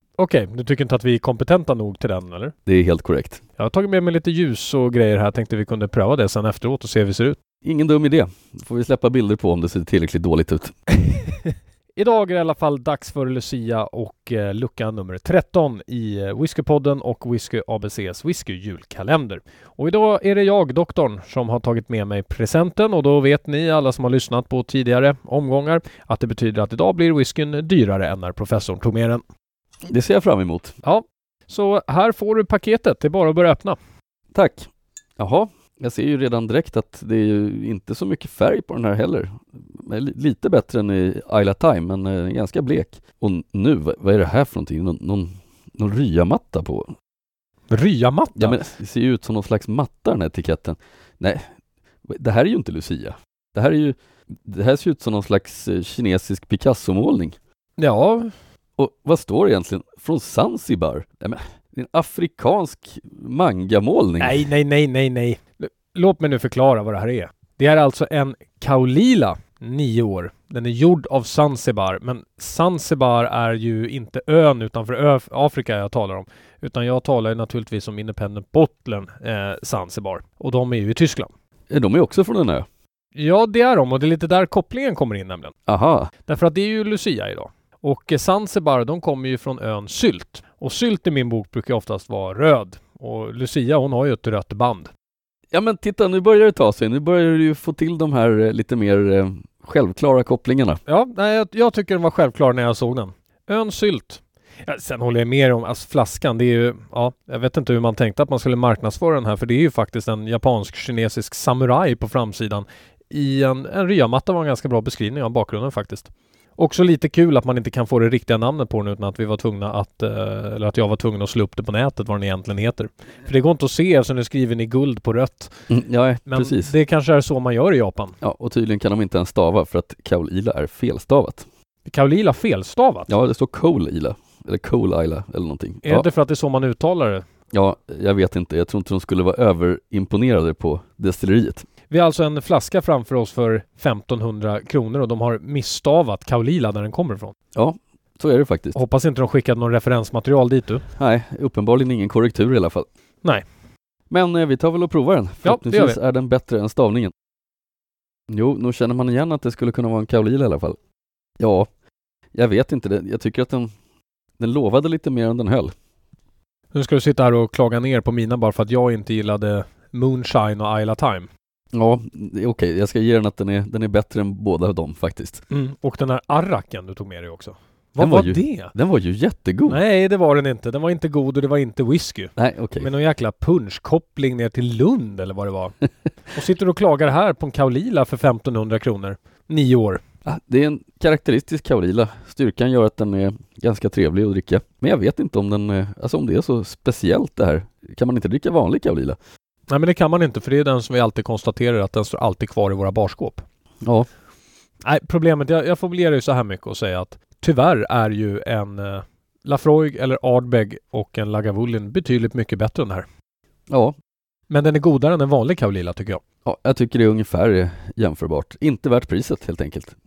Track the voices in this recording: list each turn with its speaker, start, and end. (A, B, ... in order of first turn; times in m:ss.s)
0:00.2-0:02.6 A
0:02.7-0:03.4 B
0:03.6-0:07.4 A
0:07.6-0:10.7 B
0:11.2-0:29.2 A
0:29.9-0:30.7 B
0:30.8-0:33.8 A
0:34.3-0:46.9 B
0:47.7-0:48.6 A
0:48.4-0:51.4 B
0:52.1-0:57.4 B
0:57.8-0:58.3 A
0:58.8-1:04.5 B
1:04.2-1:21.3 A
1:21.7-1:22.6 B
1:23.2-1:25.5 A
1:25.7-1:26.1 B
1:26.3-1:34.9 A
1:35.5-1:40.8 B
1:40.9-2:05.5 A
2:05.7-2:06.7 B
2:06.3-2:08.2 A
2:08.2-2:11.4 B
2:11.8-2:13.1 A
2:13.1-2:16.1 B
2:15.8-2:17.2 A
2:17.5-2:21.6 B
2:21.9-2:27.3 A
2:27.6-2:28.8 B
2:28.8-2:30.8 A
2:31.0-2:32.9 B
2:34.1-2:37.1 B
2:35.4-2:36.0 A
2:38.3-2:40.8 B
2:41.4-2:41.7 B
2:42.3-2:43.7 B
2:44.4-2:45.7 B
2:46.7-2:51.3 A
2:51.7-2:55.4 B
2:55.5-2:58.7 A
2:58.0-2:59.8 B
2:59.7-3:05.8 A
3:02.4-3:02.9 B
3:06.3-3:10.0 A
3:10.2-3:19.2 B
3:19.7-3:23.4 A
3:23.8-3:24.1 B
3:24.8-3:33.1 A
3:33.7-3:34.0 B
3:34.5-3:36.2 A
3:36.4-3:39.9 B